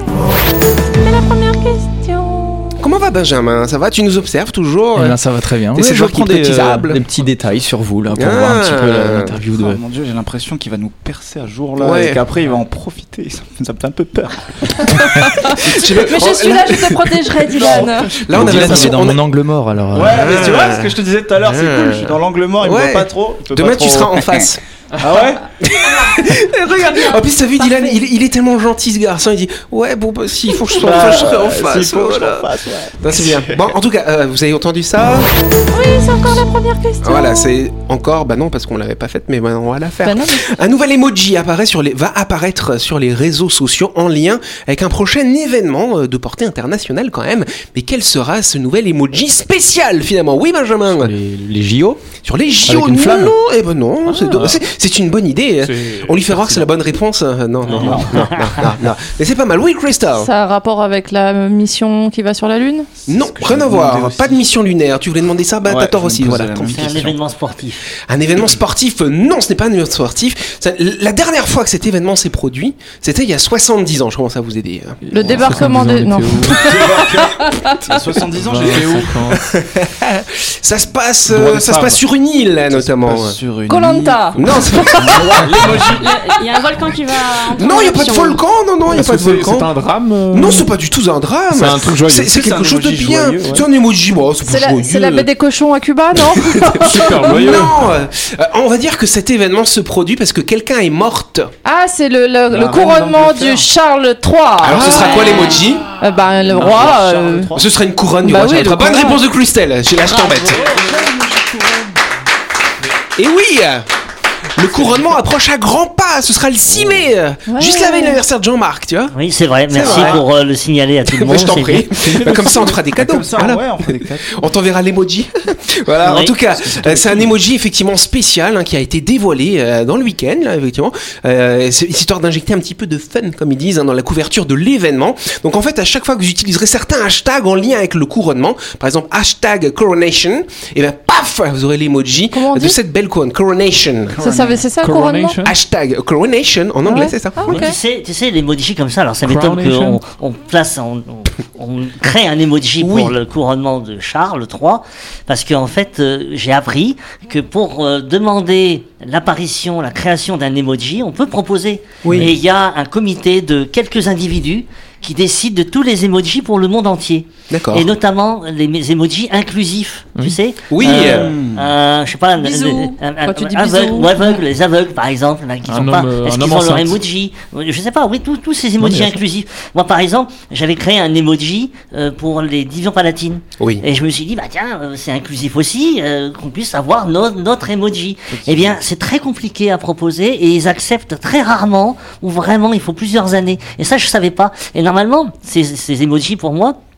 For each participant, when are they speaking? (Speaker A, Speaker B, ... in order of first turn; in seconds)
Speaker A: 1.0-2.8, 15.0-18.1, 27.6-27.9, 35.7-37.6, 40.0-40.5, 60.2-62.9, 75.1-78.0, 83.7-85.2, 94.5-97.4, 101.6-107.5, 108.2-109.2, 117.5-118.2, 142.3-142.8, 144.2-145.4, 146.8-147.8, 172.4-174.4
Speaker B: 2.8-5.2, 5.8-7.0, 8.2-9.3, 11.8-12.2, 15.4-19.2, 20.1-24.6, 25.6-35.3, 37.0-51.1, 52.2-60.3, 63.1-67.0, 68.1-75.0, 79.6-83.4, 84.4-85.5, 87.5-89.7, 90.3-95.3, 96.6-101.5, 104.6-105.9, 107.5-110.6, 113.2-113.9, 114.6-119.1, 119.7-120.3, 121.1-144.2, 145.4-147.6, 152.8-153.1, 162.0-162.3, 167.5-167.9, 170.7-171.3
Speaker C: 5.0-9.8, 18.3-20.5, 50.9-52.0, 52.6-53.4
Speaker D: 9.5-15.2, 17.6-18.9, 19.9-24.5, 25.0-25.4, 30.8-33.7, 57.8-58.3, 63.1-64.5, 65.7-67.2, 76.5-79.4, 81.3-81.9, 82.7-86.1, 92.3-93.7, 102.5-103.7, 104.8-105.2, 106.2-107.8, 110.2-111.9, 116.7-117.1, 119.8-120.2, 122.0-124.5, 126.6-127.3, 144.1-144.7, 170.9-171.7, 188.3-188.8
Speaker E: 54.1-54.6, 55.6-56.7, 75.1-76.7, 78.4-79.4, 81.4-81.8, 85.6-85.8, 88.9-90.7, 91.5-92.3, 96.8-97.9, 110.5-110.9, 144.8-145.6, 149.2-150.0, 175.7-177.0, 178.8-179.2
Speaker F: 57.7-58.5, 66.7-67.9, 119.1-122.0, 126.0-126.3, 147.4-196.8
Speaker G: 85.9-88.4